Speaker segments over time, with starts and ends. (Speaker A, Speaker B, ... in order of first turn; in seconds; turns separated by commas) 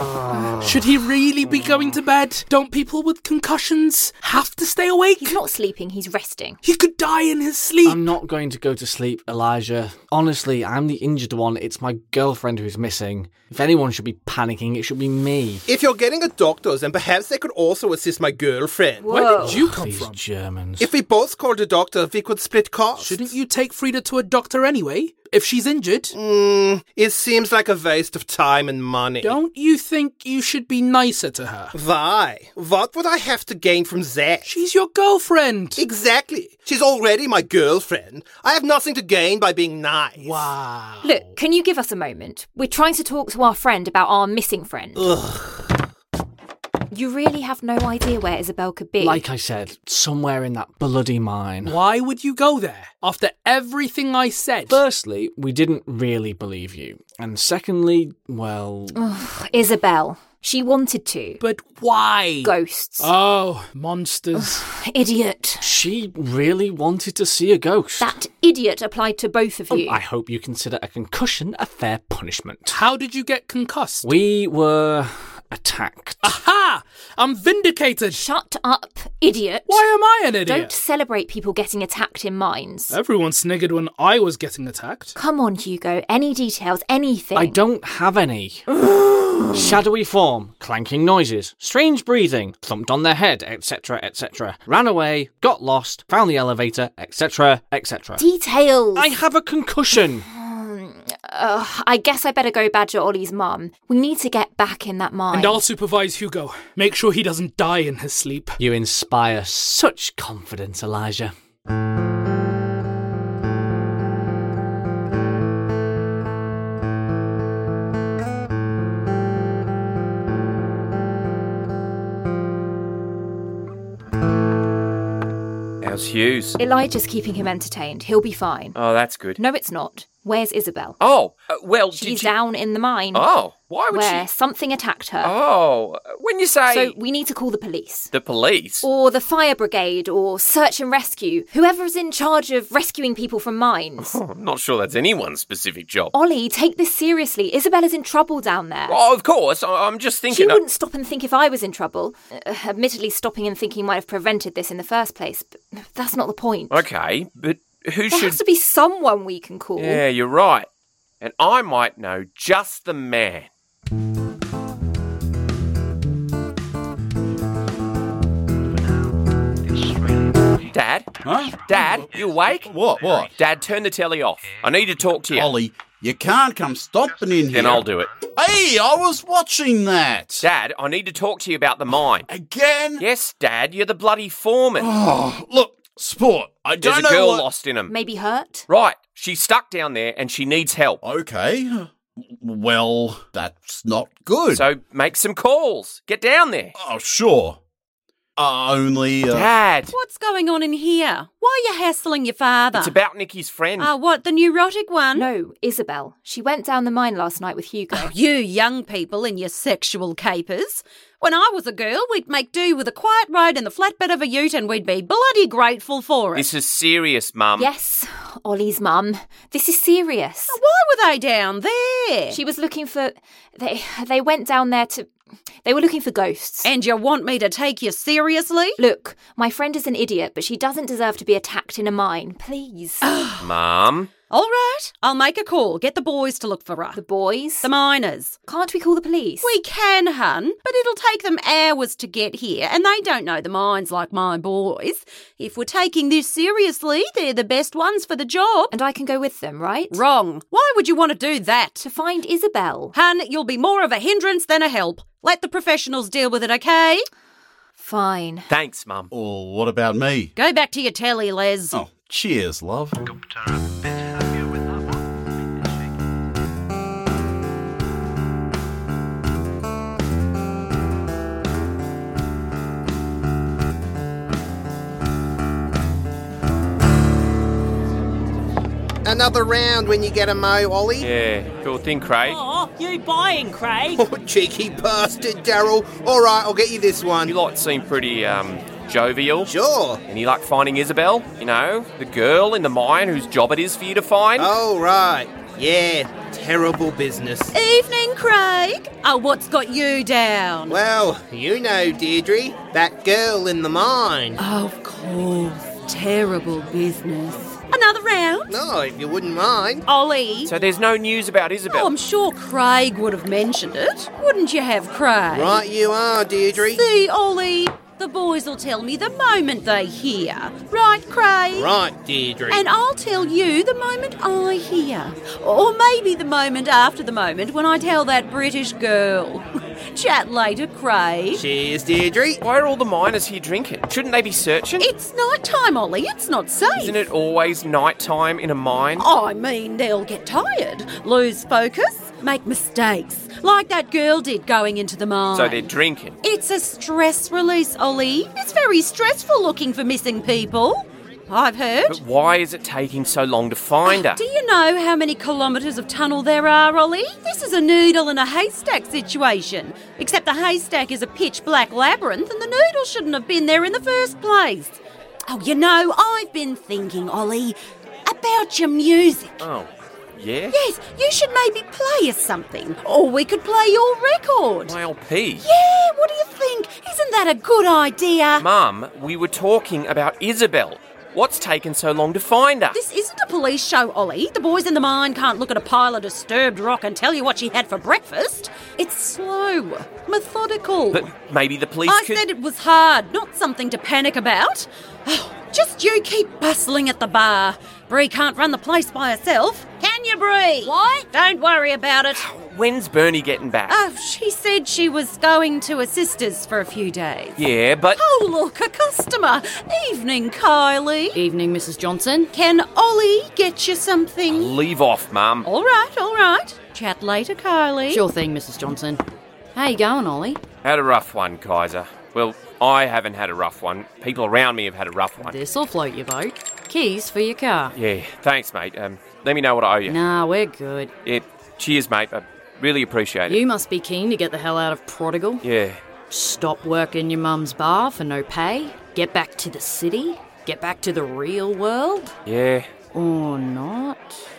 Speaker A: 0.6-5.4, Speaker B: 5.2-6.6, Speaker A: 6.6-8.2, Speaker C: 7.8-15.6, Speaker D: 15.7-19.2, Speaker B: 19.0-19.7, Speaker A: 19.1-20.2, Speaker C: 19.4-20.9, Speaker D: 20.8-23.3, Speaker A: 23.0-26.1, Speaker D: 26.1-29.4, Speaker A: 29.2-31.7, Speaker D: 31.7-34.5, Speaker A: 34.5-35.8, Speaker D: 35.8-40.5, Speaker A: 40.2-41.3, Speaker B: 41.0-45.1, Speaker D: 45.0-45.7, Speaker B: 46.9-49.3, Speaker C: 49.0-51.8, Speaker A: 51.6-54.8, Speaker C: 54.7-59.0, Speaker B: 59.0-61.4, Speaker A: 61.4-64.6, Speaker B: 62.4-63.1, Speaker B: 64.4-65.7, Speaker C: 65.6-68.1, Speaker B: 68.0-70.0, Speaker C: 69.7-72.8, Speaker A: 72.7-74.1, Speaker C: 74.0-76.3, Speaker A: 76.2-78.2, Speaker B: 78.1-79.8, Speaker A: 79.7-80.7, Speaker B: 80.4-83.0, Speaker A: 82.9-85.2, Speaker B: 85.2-87.6, Speaker C: 87.3-88.7, Speaker C: 89.5-98.2, Speaker B: 98.2-99.1, Speaker C: 99.0-100.3, Speaker B: 100.2-105.6, Speaker A: 105.3-108.6, Speaker C: 108.6-111.3, Speaker E: 125.8-126.6, Speaker B: 126.6-128.8, Speaker E: 128.8-129.4, Speaker B: 129.4-131.0, Speaker E: 131.0-132.3, Speaker B: 131.9-133.3, Speaker E: 133.1-134.3, Speaker B: 133.9-135.3, Speaker E: 135.2-137.0, Speaker B: 136.7-138.1, Speaker E: 138.1-138.9, Speaker B: 138.8-144.2, Speaker E: 144.0-146.1, Speaker B: 146.1-149.0, Speaker E: 148.9-150.6, Speaker B: 150.3-156.8, Speaker E: 156.7-158.4, Speaker B: 158.1-160.0, Speaker E: 159.8-160.7, Speaker E: 161.2-163.5, Speaker E: 170.7-172.7, Speaker F: 171.2-173.3, Speaker E: 173.3-175.5, Speaker F: 175.3-180.5, Speaker E: 177.5-178.1, Speaker E: 180.4-182.3, Speaker F: 182.3-183.1, Speaker E: 183.0-184.9, Speaker F: 184.8-187.5, Speaker E: 186.8-187.9, Speaker B: 187.9-188.7, Speaker E: 188.7-191.0, Speaker F: 191.0-194.7, Speaker E: 194.5-196.8, Speaker F: 196.8-197.6, Speaker F: 198.4-199.5, Speaker E: 199.3-199.9, Speaker G: 199.9-203.0, Speaker E: 202.7-203.9, Speaker G: 203.8-205.3, Speaker B: 205.1-208.1, Speaker G: 207.9-216.5, Speaker E: 216.3-217.7, Speaker B: 217.6-220.6, Speaker G: 220.5-222.4, Speaker B: 222.3-225.1, Speaker B: 225.6-226.7, Speaker G: 226.6-228.8, Speaker B: 228.8-233.1, Speaker G: 233.0-233.5, Speaker E: 233.4-234.1, Speaker G: 234.3-237.0, Speaker B: 236.9-237.7, Speaker G: 237.6-238.4, Speaker B: 238.5-239.5, Speaker G: 239.4-248.7, Speaker B: 248.7-250.0, Speaker G: 249.9-251.9, Speaker B: 251.8-252.9, Speaker G: 252.9-257.1, Speaker B: 257.8-258.5, Speaker E: 258.5-259.1, Speaker F: 259.1-260.3, Speaker G: 260.4-261.8, Speaker F: 261.7-263.0, Speaker D: 279.1-281.1, Speaker E: 281.0-282.4, Speaker G: 282.3-284.0, Speaker D: 284.0-287.3, Speaker E: 287.3-289.5, Speaker D: 289.5-290.0, Speaker E: 290.1-294.5, Speaker D: 294.4-297.6, Speaker G: 297.5-300.8, Speaker D: 300.7-304.4, Speaker G: 304.4-308.6, Speaker D: 308.5-309.9, Speaker G: 309.9-310.5, Speaker E: 310.4-311.9, Speaker G: 311.7-315.6, Speaker D: 315.3-316.9, Speaker G: 316.5-321.8, Speaker D: 321.5-322.6, Speaker G: 322.5-331.4, Speaker D: 331.3-332.4, Speaker E: 332.4-334.9, Speaker G: 334.8-337.1, Speaker E: 336.7-339.1, Speaker G: 339.0-345.7, Speaker E: 345.3-346.2, Speaker G: 346.2-352.0, Speaker E: 351.9-354.2, Speaker G: 353.9-369.4, Speaker E: 369.4-370.6, Speaker G: 370.5-374.8, Speaker E: 374.6-375.5, Speaker G: 375.4-378.5, Speaker E: 378.4-382.8, Speaker G: 382.7-391.1, Speaker E: 390.9-392.3, Speaker G: 391.9-402.2, Speaker E: 402.1-403.8, Speaker G: 403.7-407.4, Speaker E: 407.4-408.0, Speaker G: 407.9-411.2, Speaker H: 411.1-412.3, Speaker G: 412.3-414.6, Speaker E: 414.3-415.5, Speaker G: 415.4-418.0, Speaker H: 417.9-419.0, Speaker H: 419.6-420.4, Speaker E: 420.6-425.4, Speaker H: 425.2-427.7, Speaker E: 427.8-430.0, Speaker H: 429.9-430.9, Speaker E: 431.1-433.4, Speaker H: 433.3-435.4, Speaker E: 435.4-435.8, Speaker H: 436.1-442.1, Speaker E: 442.3-442.7, Speaker H: 442.9-444.2